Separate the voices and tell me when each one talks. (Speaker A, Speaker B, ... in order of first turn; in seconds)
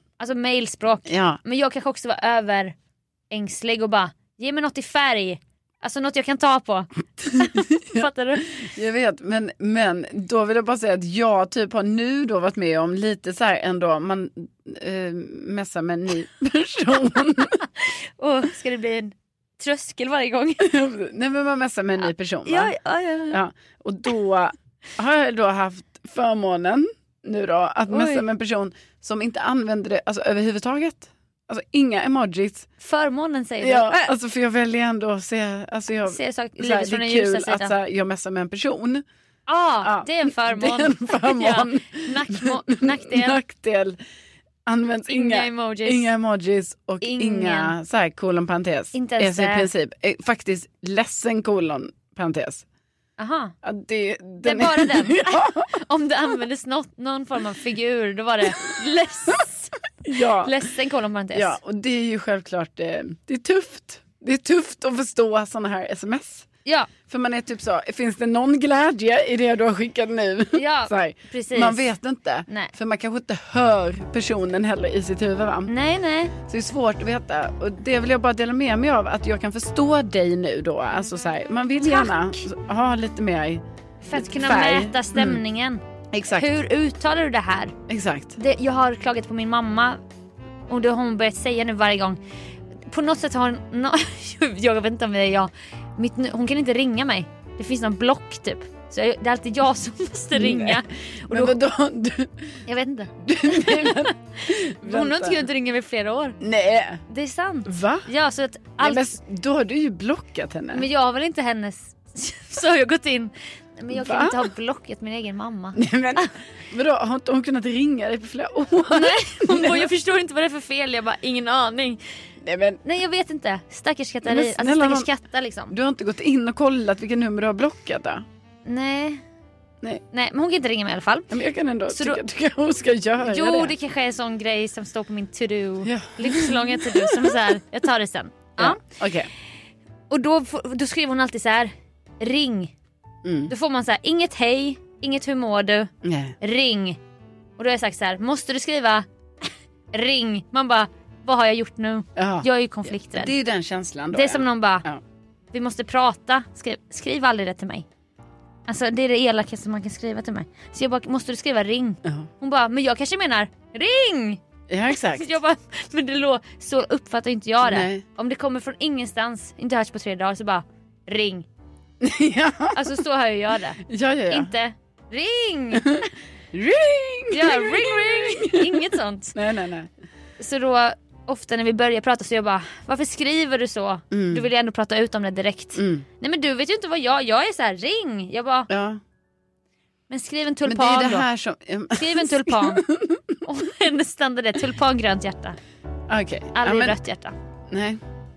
Speaker A: 0.2-2.7, 3.3-8.7, 17.6-20.7, 22.4-23.4, 27.9-28.2, 32.8-34.1, 36.0-37.7, 39.5-43.4, 45.1-46.1, 47.0-47.7, 48.9-49.7, 53.2-53.5, 54.4-61.6, 66.6-66.9, 70.5-71.9, 72.5-72.7, 75.7-76.3, 81.8-82.5, 84.0-85.8, 86.3-87.7, 88.3-90.0, 90.7-92.2, 92.9-101.5, 102.7-106.4, 107.1-109.2, 110.7-116.3, 118.9-122.0, 122.8-125.7, 128.7-129.2, 130.1-132.2, 133.2-138.8, 140.1-142.7, 143.5-147.0, 147.6-149.1, 149.9-153.3, 154.1-154.8, 155.5-157.8, 158.7-164.4, 165.1-171.4, 172.7-176.0, 177.3-179.3, 180.4-188.7, 190.1-191.3, 191.9-192.8, 193.4-195.6, 196.6-197.3
Speaker B: 1.1-1.4, 7.2-17.6, 20.6-22.7, 23.3-32.7, 33.6-39.0, 39.8-44.0, 44.6-52.6, 53.6-55.7, 60.0-60.5, 61.3-66.5, 67.1-75.7, 76.4-83.6, 84.1-85.4, 86.1-86.6, 87.9-88.4, 100.3-102.5, 103.2-105.4, 106.4-107.0, 107.7-108.1, 108.8-110.9, 113.9-114.5, 115.7-119.9, 122.4-122.8, 124.2-125.1, 125.7-128.2, 131.3-133.7, 135.8-137.4, 138.6-139.3, 143.2-143.5, 146.0-146.3, 152.2-155.0, 164.7-165.3, 167.6-168.0, 172.0-173.0, 173.8-174.5, 175.7-179.9, 184.1-184.4, 185.7-186.1, 188.7-189.0, 190.6-193.4, 196.1-197.0, 197.7-198.0